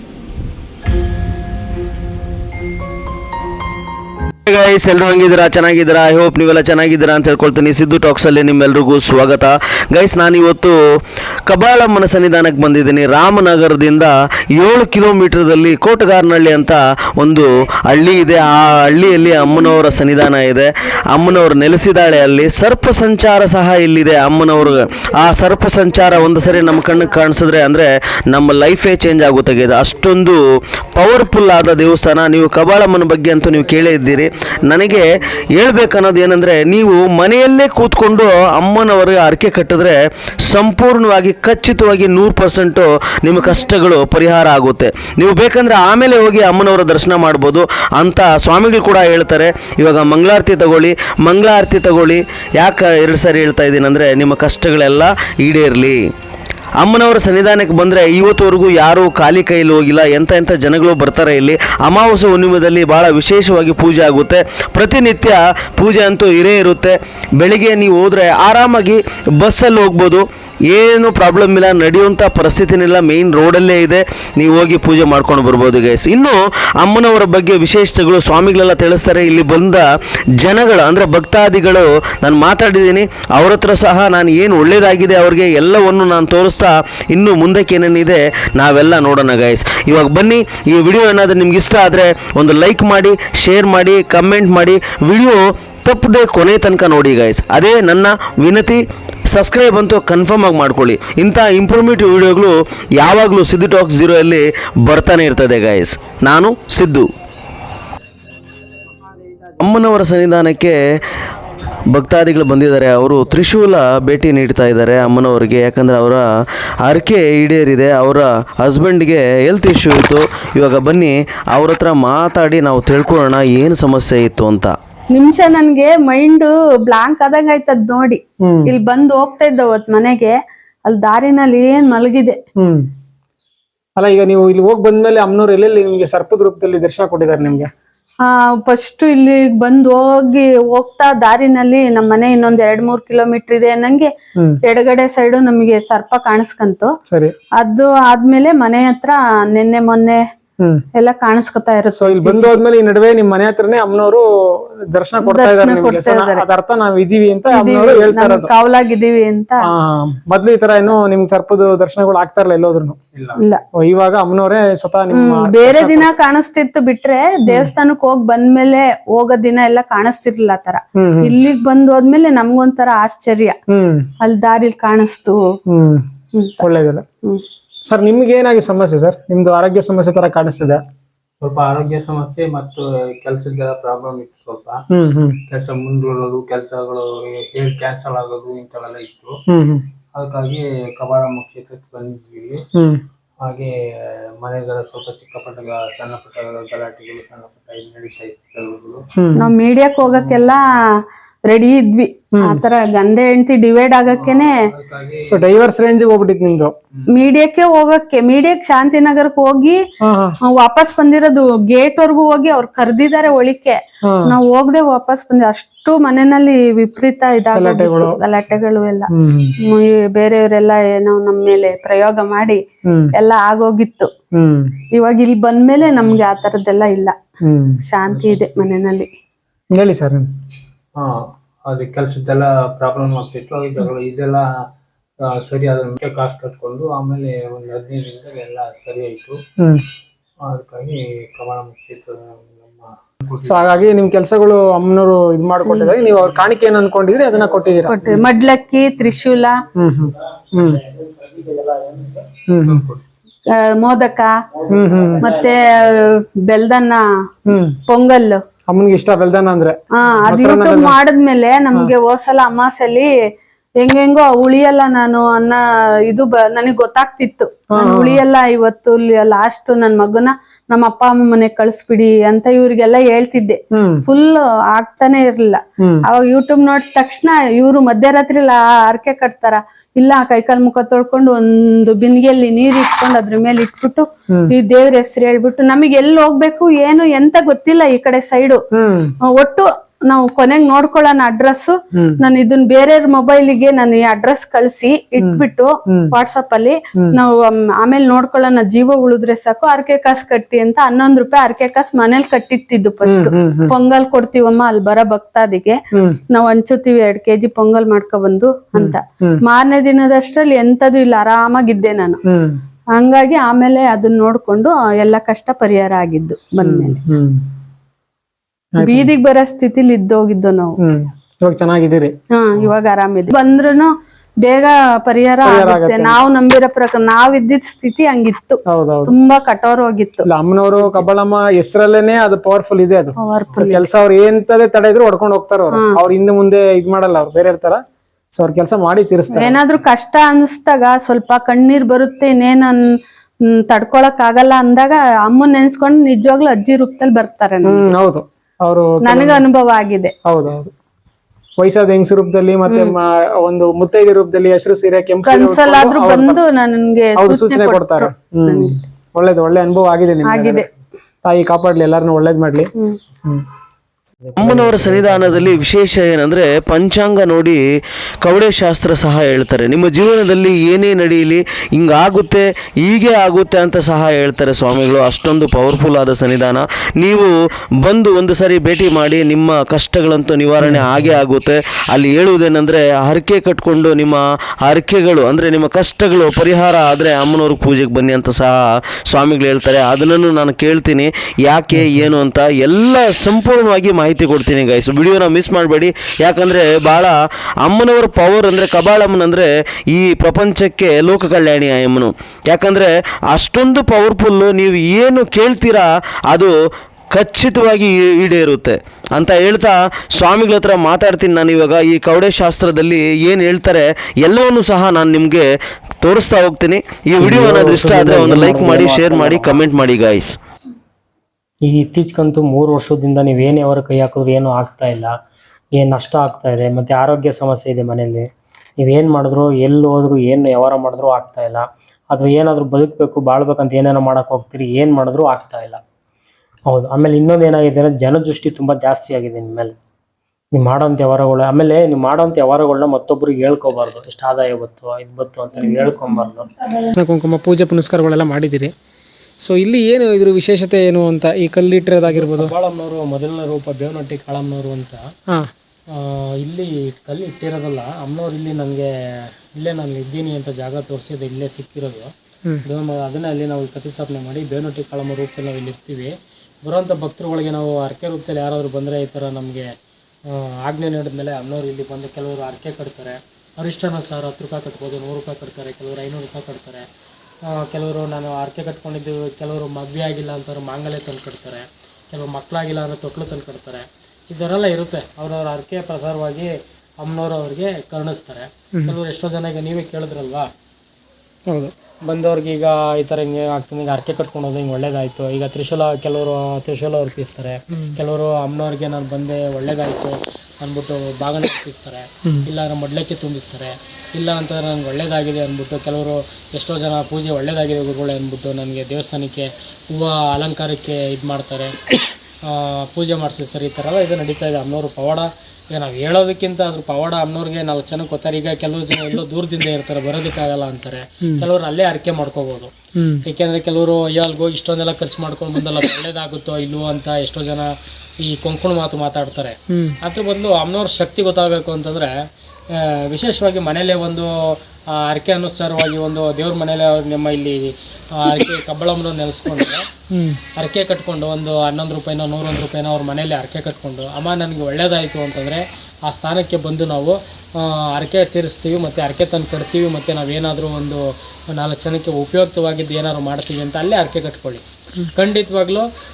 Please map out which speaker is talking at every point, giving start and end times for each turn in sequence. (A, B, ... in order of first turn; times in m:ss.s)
0:04.5-0:10.8 A
0:11.4-0:30.4 A
0:30.9-0:56.0 A
0:56.8-1:19.8 A
1:20.4-1:47.1 A
1:49.6-1:50.8 A
1:51.9-1:56.2 A
1:56.8-2:04.7 A
2:05.1-2:10.3 B
2:08.4-2:08.7 C
2:10.8-2:12.4 B
2:12.6-2:12.9 C
2:14.0-2:17.7 C
2:18.2-2:24.1 B
2:24.6-2:26.9 B
2:27.1-2:27.3 C
2:27.6-2:30.2 B
2:31.0-2:32.6 B
2:32.0-2:38.5 C
2:35.2-2:36.4 B
2:37.5-2:39.6 B
2:39.6-2:43.0 C
2:43.1-2:43.4 D
2:43.8-2:46.1 C
2:45.1-2:53.6 B
2:51.0-2:51.3 C
2:53.7-2:54.1 C
2:54.2-2:55.4 B
2:55.7-2:56.0 C
2:56.3-2:56.6 B
2:56.6-2:57.0 C
2:57.9-3:00.8 C
3:01.4-3:04.8 D
3:04.9-3:05.4 C
3:05.5-3:09.3 D
3:09.5-3:09.8 C
3:10.2-3:12.6 D
3:13.4-3:13.7 D
3:14.4-3:19.0 D
3:19.2-3:19.5 C
3:19.4-3:20.6 B
3:20.0-3:20.6 D
3:21.5-3:24.5 B
3:22.3-3:22.6 C
3:24.1-3:25.4 D
3:25.2-3:26.7 C
3:27.1-3:29.8 B
3:30.0-3:30.3 C
3:30.5-3:39.1 B
3:34.1-3:34.4 C
3:37.6-3:38.2 C
3:39.1-3:39.5 C
3:39.6-3:42.6 B
3:42.9-3:43.1 C
3:43.2-3:44.1 B
3:44.3-3:44.7 C
3:44.9-3:47.1 B
3:45.9-3:46.2 D
3:47.4-3:47.8 C
3:47.8-3:49.1 B
3:48.1-3:48.5 D
3:49.7-3:50.3 C
3:51.7-3:54.5 D
3:55.2-3:59.4 D
4:00.4-4:03.8 D
4:03.4-4:08.2 C
4:05.7-4:05.9 B
4:07.9-4:09.6 B
4:09.7-4:10.8 C
4:10.9-4:12.2 E
4:12.5-4:12.8 C
4:12.6-4:13.0 D
4:13.5-4:14.3 B
4:14.7-4:15.3 C
4:15.2-4:17.0 B
4:17.5-4:17.8 C
4:17.9-4:18.4 B
4:18.7-4:21.0 C
4:20.0-4:23.1 B
4:23.8-4:48.6 B
4:27.7-4:28.2 C
4:33.7-4:34.0 C
4:48.7-4:49.1 C
4:49.3-5:05.8 B
4:51.9-4:52.2 C
4:55.2-4:56.1 C
5:03.0-5:03.7 C
5:05.9-5:06.2 C
5:06.3-5:12.2 B
5:08.8-5:09.4 C
5:12.3-5:12.6 C
5:13.0-5:17.0 B
5:16.6-5:17.4 C
5:18.8-5:19.1 C
5:18.8-5:20.7 B
5:20.8-5:22.1 C
5:22.4-5:23.9 B
5:24.4-5:30.2 B
5:25.4-5:26.2 C
5:28.7-5:29.1 C
5:30.2-5:37.8 C
5:33.2-5:33.9 B
5:38.4-5:39.6 C
5:39.4-5:42.8 B
5:43.5-5:47.9 B
5:47.6-5:49.4 C
5:49.0-5:50.1 B
5:50.2-5:50.7 C
5:51.6-5:56.4 C
5:52.7-5:52.9 B
5:55.3-5:58.8 B
5:57.2-6:00.6 C
6:00.2-6:00.7 B
6:01.2-6:02.7 C
6:04.2-6:05.6 C
6:04.4-6:07.6 A
6:08.2-6:28.5 A
6:20.6-6:21.1 C
6:29.1-6:46.5 A
6:31.7-6:32.1 C
6:47.1-6:55.4 A
6:56.0-7:00.3 A
6:57.2-6:59.7 E
7:01.6-7:05.1 E
7:05.8-7:08.3 E
7:08.8-7:15.8 E
7:16.7-7:19.7 E
7:20.5-7:26.5 E
7:26.9-7:28.7 C
7:29.4-7:32.5 C
7:32.1-7:35.0 E
7:35.9-7:42.1 E
7:42.6-7:49.7 E
7:50.3-7:56.8 E
7:57.4-8:10.5 E
8:11.5-8:11.7 C
8:12.0-8:31.7 E
8:32.4-8:42.7 E
8:43.0-8:43.2 C
8:43.2-8:52.1 E
8:49.7-8:50.0 C
8:52.7-8:57.6 E
8:58.1-8:59.8 E
9:00.1-9:00.4 C
9:00.6-9:14.6 E
9:15.1-9:15.9 E